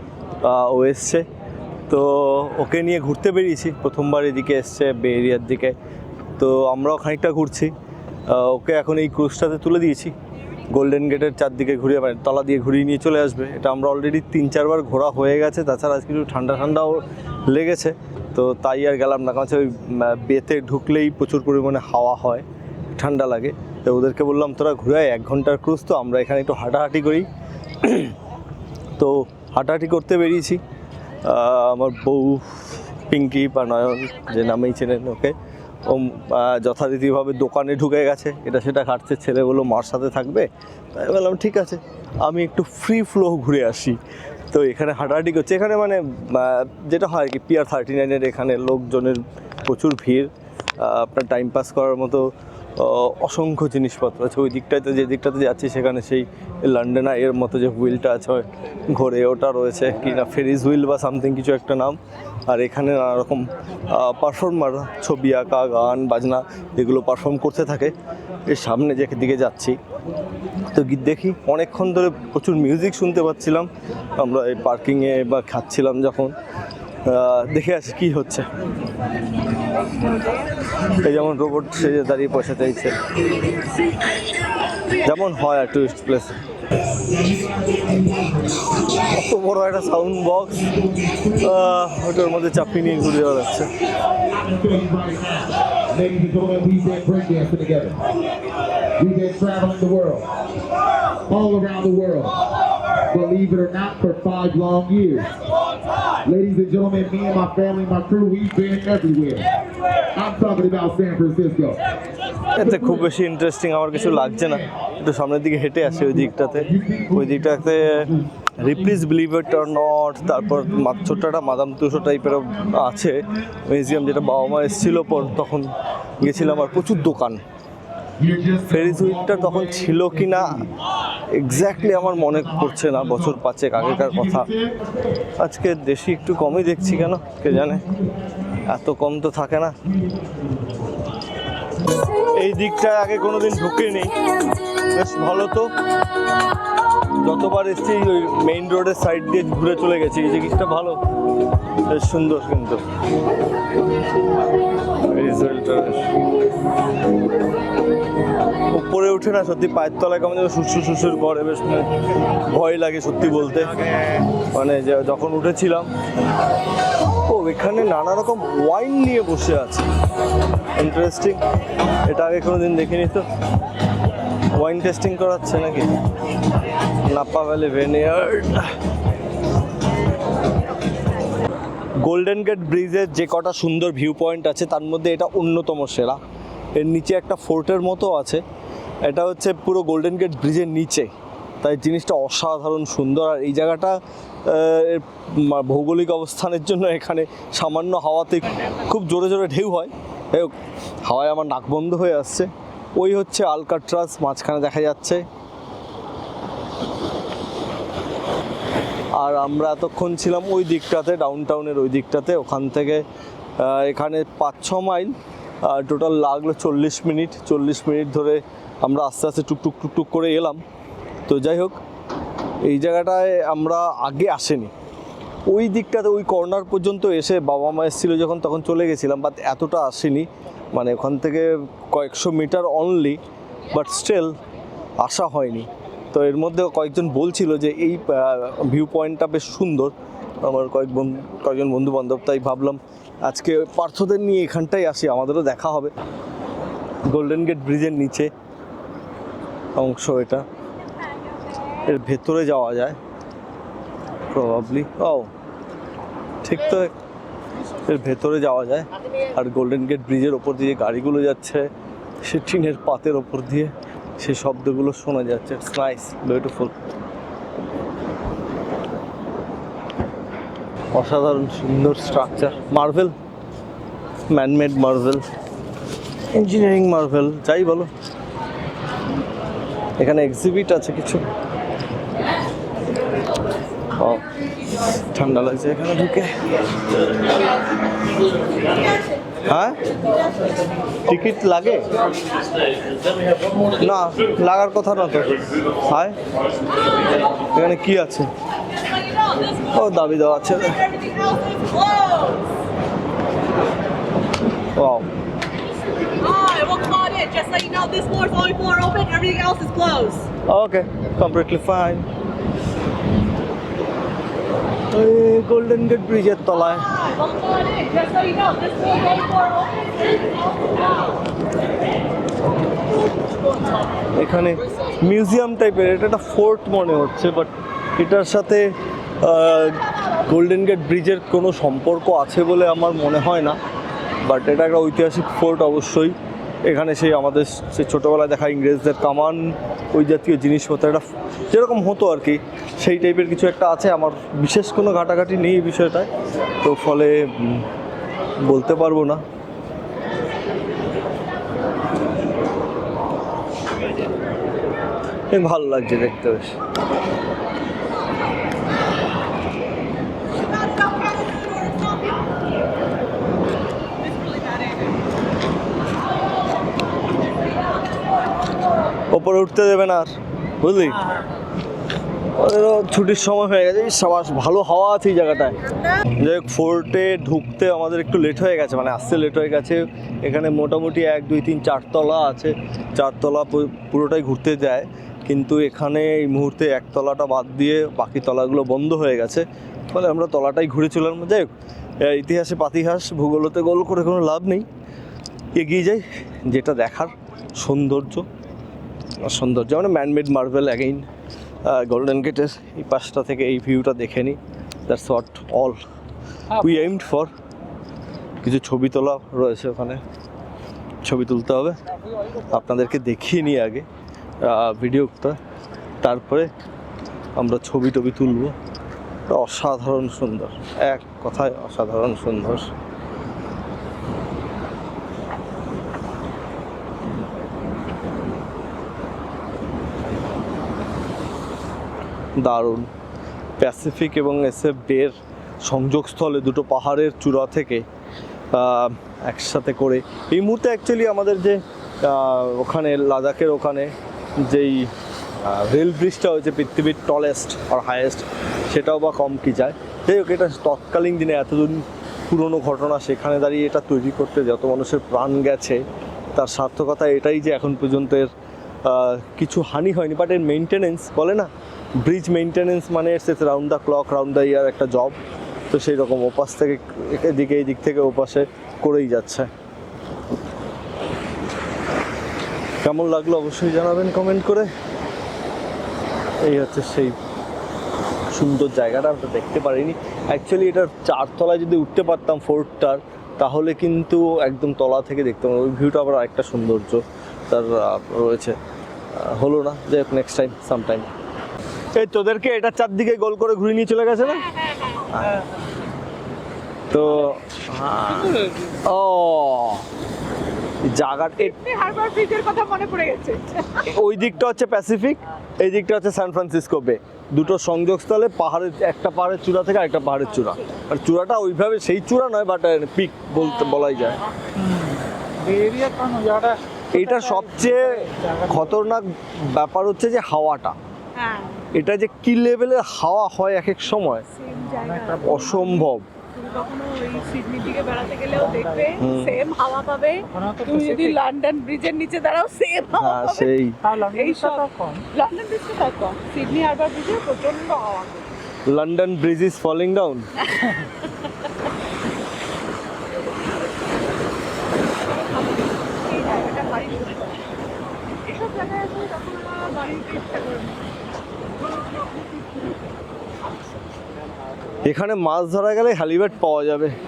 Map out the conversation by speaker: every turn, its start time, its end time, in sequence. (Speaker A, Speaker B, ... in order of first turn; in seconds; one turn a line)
Speaker A: 0.4-1.2
Speaker A: 1.9-5.8
Speaker A: 6.4-7.7
Speaker A: 8.3-10.1
Speaker A: 10.7-27.3
Speaker A: 27.8-28.1
Speaker A: 29.0-30.6
Speaker A: 31.2-44.0
Speaker A: 44.5-62.0
Speaker A: 62.5-67.9
Speaker A: 68.5-69.8
Speaker A: 70.7-76.3
Speaker A: 77.1-78.5
Speaker A: 80.8-83.0
Speaker A: 85.0-86.3
Speaker B: 87.1-88.7
Speaker A: 89.0-93.7
Speaker B: 94.3-98.0
Speaker B: 99.0-100.3
Speaker B: 101.3-102.5
Speaker B: 103.0-105.3
Speaker B: 106.2-109.5
Speaker B: 110.1-111.8
Speaker A: 112.5-127.4
Speaker B: 128.2-128.6
Speaker A: 128.6-130.7
Speaker A: 131.3-134.5
Speaker A: 135.4-137.9
Speaker A: 138.5-139.8
Speaker A: 142.1-145.7
Speaker A: 147.1-151.0
Speaker A: 151.8-152.8
Speaker A: 155.0-156.1
Speaker A: 158.7-163.8
Speaker A: 164.3-165.9
Speaker A: 167.2-169.9
Speaker A: 170.8-171.4
Speaker A: 172.1-173.2
Speaker A: 174.6-175.9
Speaker A: 177.1-178.8
Speaker A: 182.0-186.2
Speaker A: 186.8-188.4
Speaker A: 189.0-191.1
Speaker A: 191.6-205.2
Speaker A: 209.2-213.0
Speaker A: 213.6-220.6
Speaker A: 221.3-221.8
Speaker A: 222.6-224.7
Speaker A: 225.5-233.2
Speaker A: 233.7-234.4
Speaker A: 235.0-245.9
Speaker A: 247.1-248.3
Speaker A: 249.8-250.4
Speaker A: 251.8-253.0
Speaker A: 254.3-255.3
Speaker A: 256.4-256.9
Speaker A: 257.8-261.7
Speaker A: 262.2-266.7
Speaker A: 270.9-273.1
Speaker A: 274.3-275.2
Speaker A: 276.3-277.9
Speaker A: 280.0-281.2
Speaker A: 284.0-284.3
Speaker A: 284.9-286.4
Speaker A: 289.5-289.8
Speaker A: 291.1-291.9
Speaker A: 293.8-296.1
Speaker A: 297.5-298.3
Speaker A: 299.6-301.0
Speaker C: 301.9-302.4
Speaker A: 304.8-305.1
Speaker C: 306.2-310.3
Speaker A: 310.5-312.1
Speaker A: 314.9-317.0
Speaker C: 317.4-320.0
Speaker A: 324.2-333.6
Speaker A: 334.2-336.1
Speaker A: 336.7-346.1
Speaker A: 346.6-347.7
Speaker A: 348.4-349.2
Speaker A: 355.3-356.6
Speaker C: 364.2-364.6
Speaker A: 369.1-371.0
Speaker A: 372.4-375.6
Speaker A: 376.2-391.5
Speaker A: 392.0-394.7
Speaker A: 395.6-398.3
Speaker A: 399.2-401.1
Speaker A: 401.6-405.8
Speaker A: 406.6-407.3
Speaker A: 408.4-410.0
Speaker A: 411.0-411.8
Speaker A: 412.4-413.9
Speaker A: 414.4-415.4
Speaker A: 416.0-416.5
Speaker A: 417.4-418.6
Speaker A: 419.3-422.7
Speaker A: 432.4-432.9
Speaker A: 433.6-437.9
Speaker A: 438.5-455.8
Speaker A: 456.4-458.3
Speaker A: 458.9-461.5
Speaker A: 462.0-465.1
Speaker A: 465.7-469.5
Speaker A: 472.8-474.7
Speaker A: 476.4-477.2
Speaker A: 478.3-488.6
Speaker A: 489.1-491.1
Speaker A: 491.9-494.5
Speaker C: 494.8-495.1
Speaker A: 495.1-495.4
Speaker A: 496.9-498.3
Speaker D: 498.0-498.7
Speaker A: 498.8-499.9
Speaker A: 500.8-501.6
Speaker C: 501.4-503.9
Speaker A: 503.8-514.2
Speaker C: 510.4-510.8
Speaker D: 514.6-518.7
Speaker A: 516.9-520.8
Speaker C: 521.1-521.6
Speaker A: 521.7-524.3
Speaker C: 524.3-525.6
Speaker D: 524.5-525.9
Speaker A: 525.2-526.0
Speaker C: 526.3-533.5
Speaker D: 528.3-529.0
Speaker A: 529.0-529.4
Speaker D: 530.2-531.2
Speaker A: 532.9-533.8
Speaker D: 533.8-535.1
Speaker C: 534.1-538.3
Speaker A: 538.7-540.3
Speaker C: 545.8-547.4
Speaker C: 548.2-550.9
Speaker A: 554.8-557.0